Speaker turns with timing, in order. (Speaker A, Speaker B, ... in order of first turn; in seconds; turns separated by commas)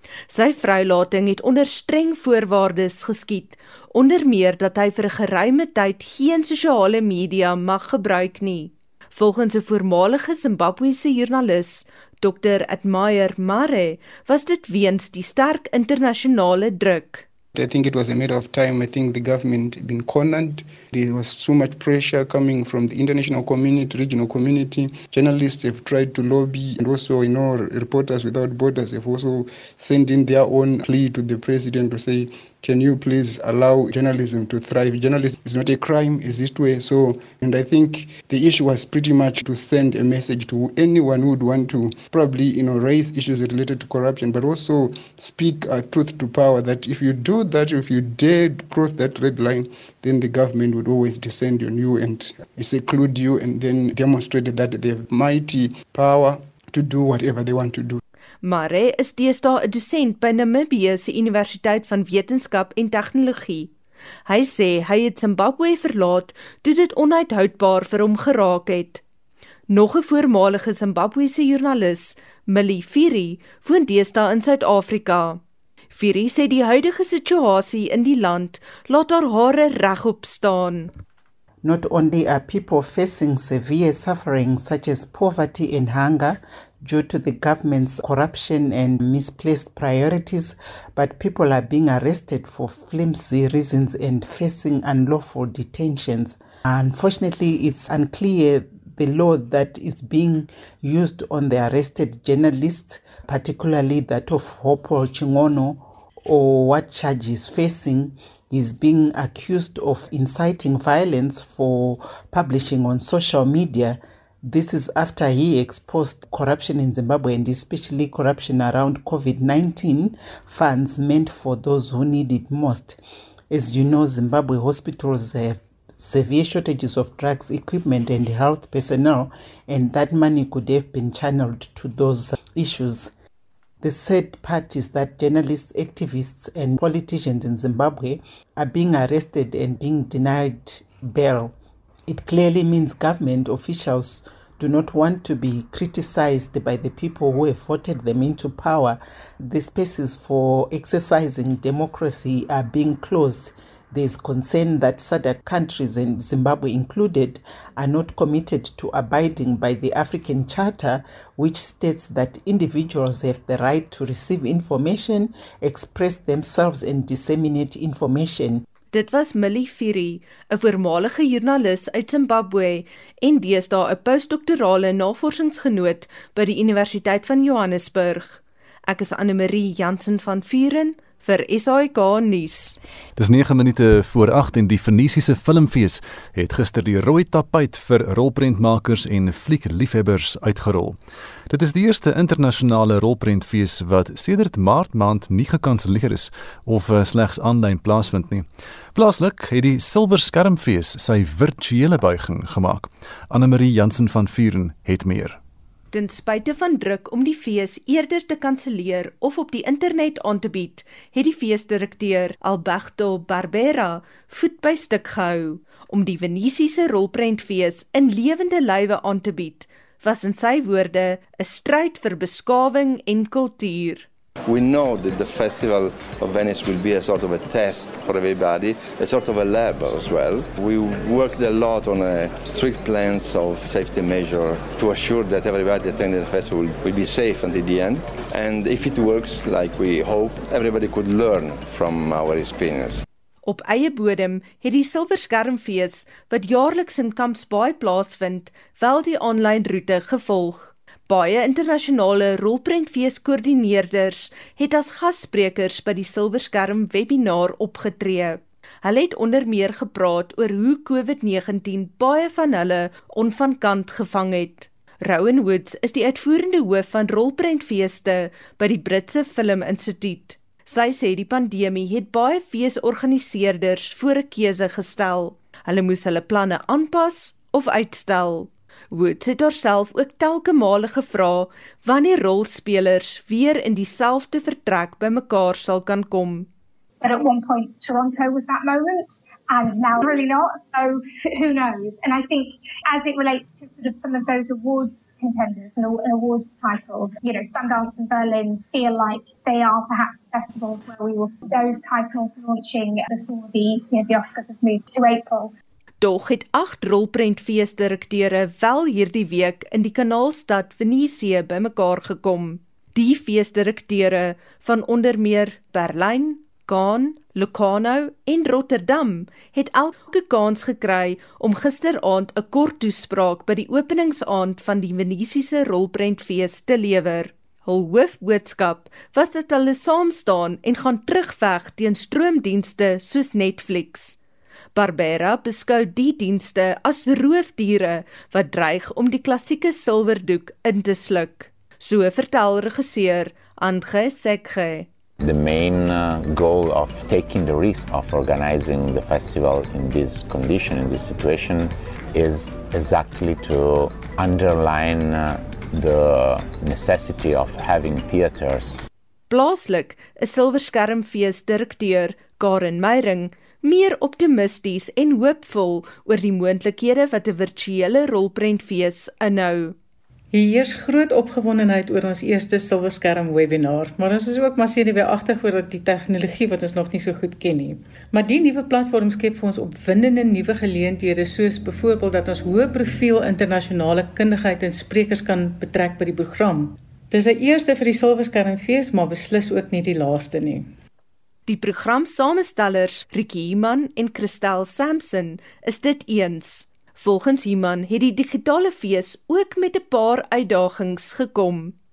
Speaker A: 0.3-17.2, Speaker B: 17.5-58.0, Speaker A: 58.4-63.7, Speaker A: 64.2-69.0, Speaker A: 69.7-75.4, Speaker A: 75.9-80.9, Speaker C: 81.6-123.0, Speaker C: 123.5-133.1, Speaker C: 133.8-141.5, Speaker C: 142.1-168.6, Speaker A: 168.9-182.8, Speaker D: 183.2-191.0, Speaker D: 191.5-205.4, Speaker A: 205.9-224.1, Speaker E: 224.5-243.0, Speaker A: 243.4-286.5, Speaker F: 287.0-305.5, Speaker A: 306.0-334.2, Speaker A: 334.7-344.9, Speaker G: 345.2-358.8, Speaker A: 359.3-369.8, Speaker H: 370.3-390.7, Speaker A: 391.5-401.7